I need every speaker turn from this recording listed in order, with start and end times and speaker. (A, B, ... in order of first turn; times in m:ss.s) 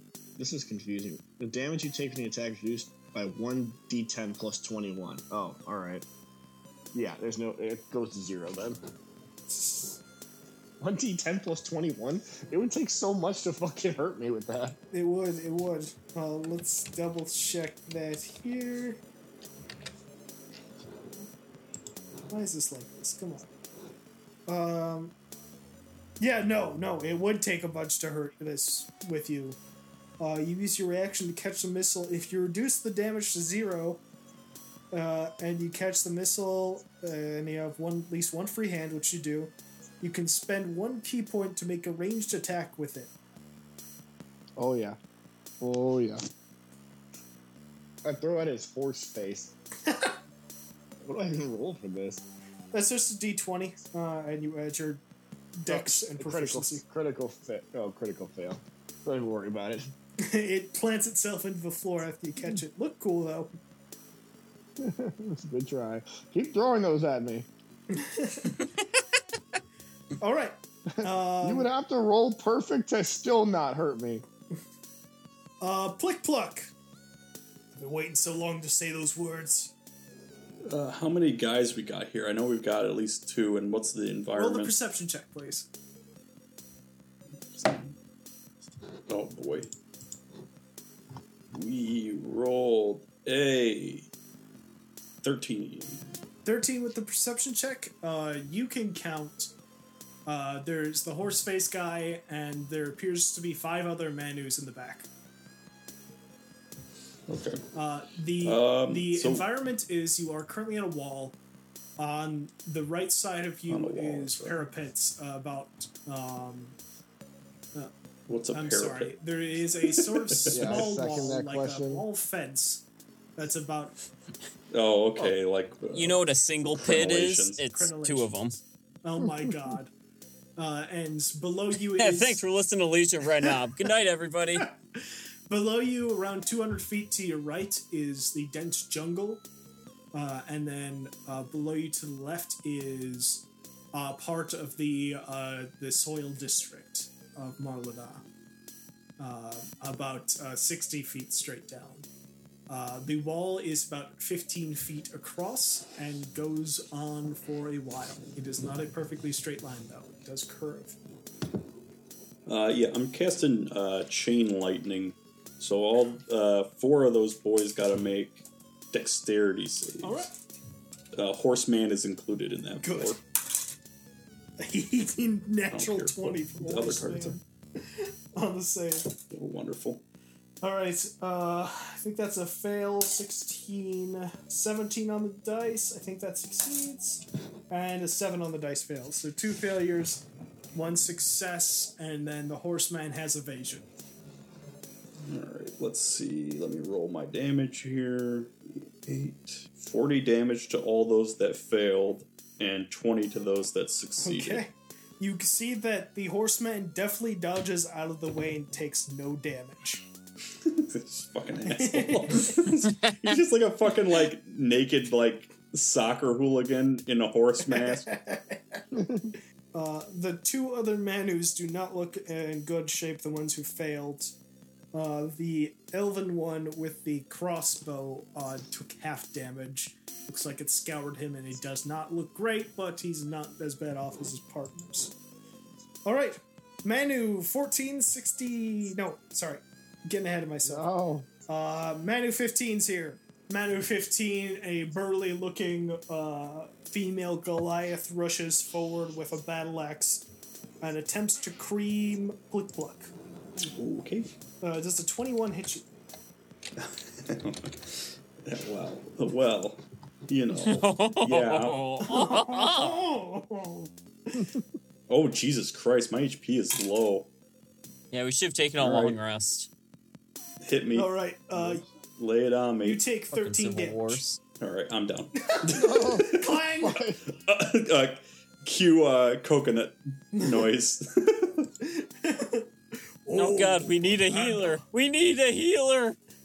0:00.4-0:06.0 A
0:06.9-0:08.8 A
0:09.5-0:10.0 B
0:10.8-0:14.8 A
0:14.9-0:19.0 B
0:22.3-0:23.5 B
0:24.5-0:25.2 B
0:26.2-0:29.6 B
0:30.2-0:34.0 B
0:34.9-0:43.1 B
0:44.6-0:45.0 A
0:45.6-0:46.2 A
0:48.0-0:49.5 A
0:49.9-0:50.2 B
0:51.0-0:52.2 A
0:52.7-0:55.0 B
0:55.6-0:56.8 B
0:55.7-0:59.9 A
1:00.2-1:03.5 B
1:04.8-1:07.5 A
1:07.9-1:08.7 B
1:10.2-1:11.7 B
1:11.0-1:14.2 A
1:15.6-1:16.7 B
1:17.8-1:19.7 B
1:20.7-1:24.8 C
1:24.3-1:25.7 B
1:27.5-1:27.9 C
1:29.1-1:29.7 C
1:31.5-1:34.1 C
1:35.2-1:36.0 C
1:36.4-1:39.5 B
1:40.3-1:45.1 B
1:47.3-1:47.6 C
1:47.7-1:51.4 B
1:48.4-1:49.5 C
1:52.0-1:56.8 B
1:53.7-1:54.6 C
1:58.3-1:59.2 C
1:58.5-2:02.9 B
1:59.8-2:00.9 C
2:00.5-2:02.0 A
2:03.4-2:04.0 B
2:04.7-2:07.6 C
2:05.9-2:08.6 D
2:07.7-2:08.5 B
2:09.0-2:09.9 B
2:10.6-2:12.4 B
2:11.8-2:14.7 D
2:15.0-2:19.4 B
2:20.1-2:28.2 B
2:29.2-2:32.1 B
2:32.7-2:41.0 B
2:42.5-2:50.3 C
2:50.0-2:50.3 B
2:51.1-2:53.2 C
2:52.8-2:53.2 B
2:54.6-2:59.2 B
2:55.7-2:57.4 C
2:59.3-3:00.0 C
3:00.6-3:13.9 B
3:15.3-3:24.6 C
3:24.2-3:30.0 B
3:30.6-3:38.1 C
3:31.7-3:32.6 B
3:37.7-3:38.8 B
3:38.9-3:39.3 A
3:39.7-3:44.4 B
3:44.9-3:55.2 B
3:56.0-4:00.9 B
4:00.6-4:01.3 A
4:01.5-4:10.3 B
4:10.8-4:13.1 B
4:13.6-4:14.3 C
4:14.6-4:15.9 B
4:16.8-4:21.8 C
4:20.6-4:23.0 D
4:22.1-4:24.6 B
4:25.1-4:27.3 C
4:28.1-4:29.7 D
4:28.8-4:29.2 C
4:30.6-4:33.1 C
4:30.9-4:31.8 B
4:32.8-4:34.2 B
4:33.3-4:34.4 D
4:34.6-4:36.6 C
4:35.4-4:37.0 B
4:35.7-4:37.2 A
4:37.3-4:41.7 C
4:40.4-4:40.7 B
4:41.8-4:42.7 B
4:43.2-4:44.8 B
4:43.3-4:46.2 D